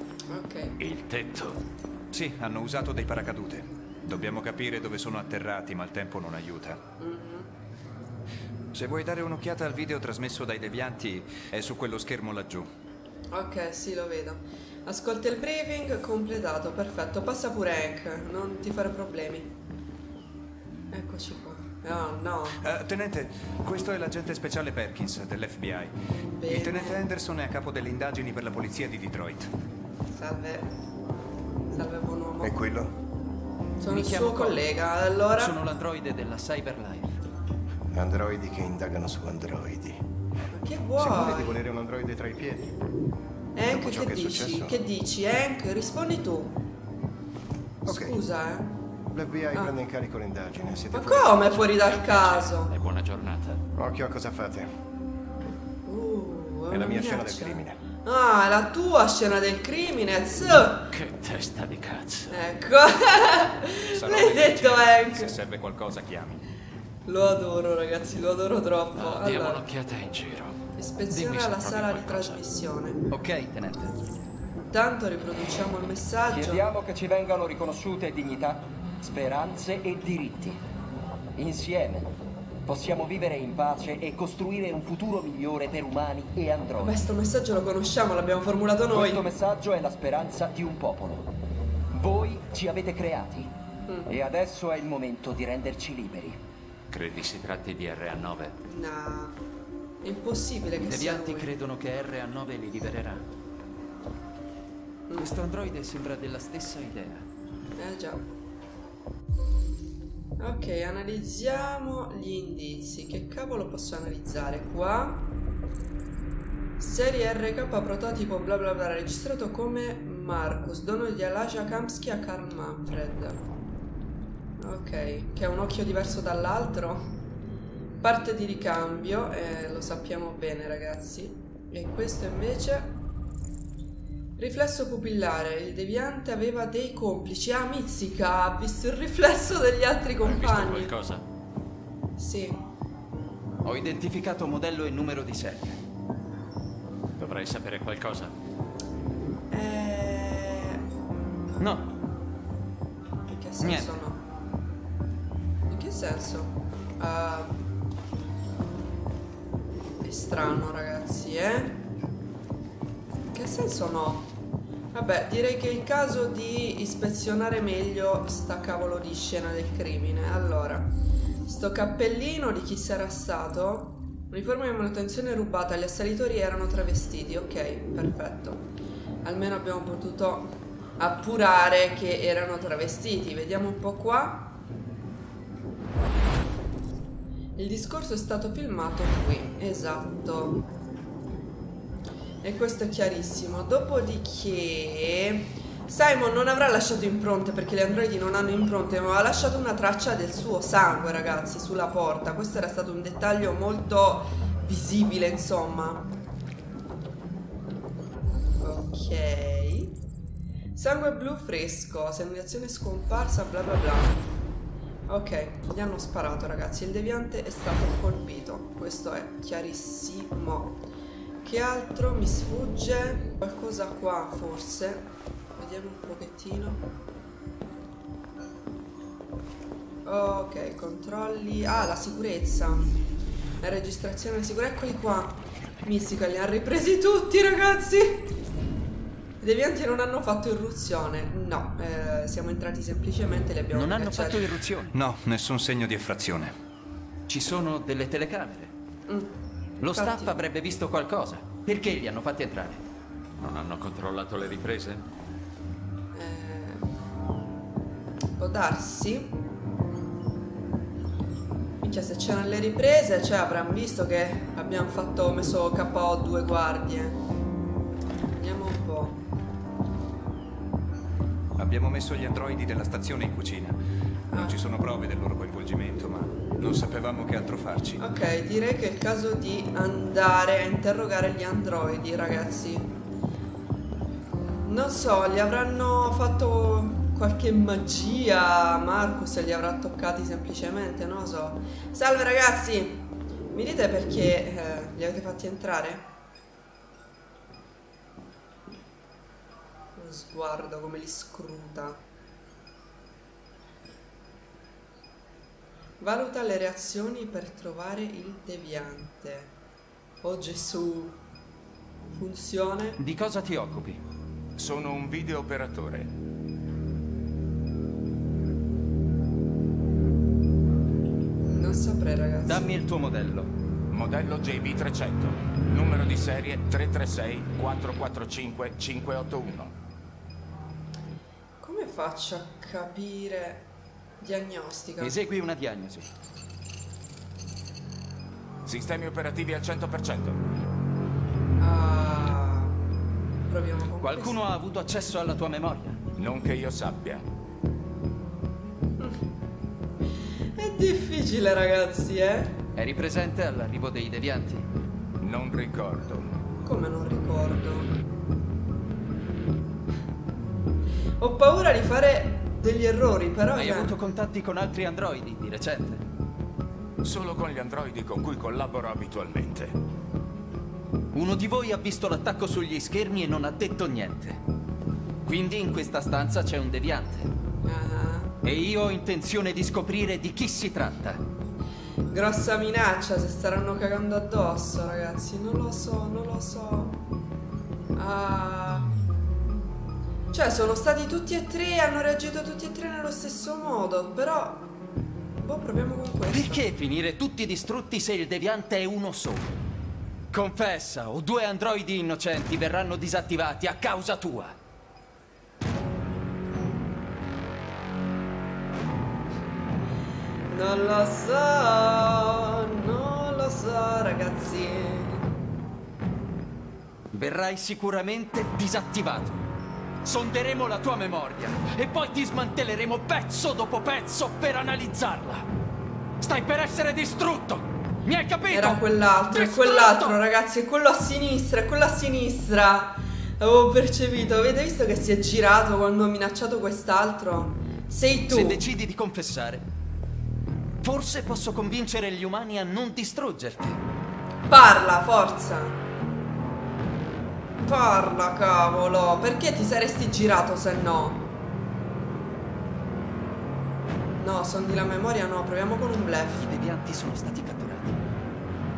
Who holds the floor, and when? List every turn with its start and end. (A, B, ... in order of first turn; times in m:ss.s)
0:00.3-0:00.8 A
0:00.8-0:01.6 B
0:02.1-0:06.8 C
0:07.0-0:07.5 A
0:08.7-0:12.7 C
0:13.3-0:19.5 A
0:20.9-0:22.6 A
0:22.6-0:29.5 C
0:26.3-0:27.1 A
0:30.2-0:30.7 A
0:31.7-0:32.6 A
0:32.4-0:33.0 D
0:33.8-0:35.6 A
0:33.9-0:34.6 E
0:35.4-0:37.2 E
0:37.9-0:40.0 D
0:40.5-0:41.6 A
0:41.0-0:42.8 D
0:43.6-0:46.6 A
0:43.7-0:44.8 D
0:47.8-0:48.8 A
0:47.9-0:48.2 D
0:49.1-0:51.8 D
0:50.9-0:52.8 A
0:51.7-0:53.6 B
0:53.8-0:54.7 D
0:55.9-1:00.9 A
0:56.7-0:57.8 D
1:00.9-1:02.3 B
1:02.3-1:05.3 A
1:03.9-1:06.4 C
1:07.1-1:09.7 A
1:09.0-1:12.4 B
1:10.8-1:13.0 A
1:13.1-1:14.0 E
1:14.6-1:16.7 A
1:16.3-1:20.6 F
1:21.4-1:22.1 F
1:22.7-1:27.0 F
1:26.8-1:29.2 A
1:28.9-1:31.3 F
1:31.9-1:33.6 F
1:34.1-1:36.4 F
1:36.9-1:38.6 B
1:38.6-1:39.4 A
1:40.0-1:41.5 A
1:40.8-1:43.3 E
1:45.1-1:45.3 A
1:45.2-1:47.3 E
1:47.8-1:48.3 A
1:50.4-1:55.3 A
1:56.8-2:03.4 A
2:04.6-2:07.2 A
2:08.0-2:13.0 A
2:14.4-2:20.9 A
2:20.2-2:21.2 B
2:22.2-2:22.6 A
2:23.6-2:25.8 E
2:27.2-2:28.3 B
2:29.5-2:30.8 A
2:31.6-2:31.9 E
2:33.3-2:34.2 A
2:33.6-2:33.9 E
2:35.7-2:37.6 A
2:40.0-2:41.8 A
2:43.3-2:44.3 A
2:44.9-2:58.7 A
2:59.2-3:04.6 A
3:07.6-3:10.6 A
3:12.4-3:26.1 A
3:28.6-3:30.0 A
3:30.8-3:34.3 A
3:35.1-3:40.8 A
3:41.4-3:46.9 A
3:50.0-3:53.0 A
3:53.6-3:58.4 A
3:59.4-4:04.5 A
4:03.7-4:05.0 E
4:04.9-4:06.6 C
4:07.3-4:08.7 E
4:09.1-4:09.4 A
4:09.8-4:12.8 E
4:09.9-4:10.4 A
4:13.4-4:15.1 B
4:16.1-4:16.9 A
4:18.4-4:19.4 A
4:21.8-4:27.2 A
4:28.4-4:29.2 A
4:31.6-4:33.8 C
4:34.3-4:34.6 A
4:34.3-4:38.0 C
4:38.0-4:43.0 A
4:44.6-4:56.1 A
5:00.0-5:02.0 A
5:06.0-5:09.6 A
5:10.2-5:11.2 A
5:12.1-5:13.0 A
5:13.0-5:14.0 E
5:14.6-5:16.1 G
5:21.5-5:22.7 A
5:22.5-5:23.5 E
5:23.9-5:29.8 G
5:31.6-5:35.2 A
5:35.0-5:36.1 E
5:38.7-5:40.4 G
5:41.6-5:42.8 A
5:43.5-5:44.4 A
5:44.0-5:46.0 E
5:46.2-5:47.2 G
5:50.6-5:52.6 A
5:52.8-5:54.7 E
5:55.2-5:56.3 G
5:56.6-5:57.9 A
6:01.2-6:04.0 A
6:03.5-6:06.0 E
6:07.0-6:09.8 G
6:11.1-6:14.4 E
6:15.3-6:17.3 E
6:17.6-6:18.4 A
6:18.4-6:21.2 E
6:22.1-6:27.0 A
6:28.0-6:28.9 A
6:30.3-6:34.7 A
6:35.4-6:36.6 A
6:36.3-6:39.5 E
6:40.3-6:44.6 E
6:50.5-6:55.3 A
6:57.1-6:59.4 E
7:00.0-7:05.5 E
7:06.2-7:10.2 E
7:08.5-7:18.6 A
7:18.3-7:19.7 E
7:20.8-7:23.8 E
7:24.5-7:25.8 A
7:27.6-7:31.3 A
7:34.2-7:36.5 A
7:36.4-7:38.0 E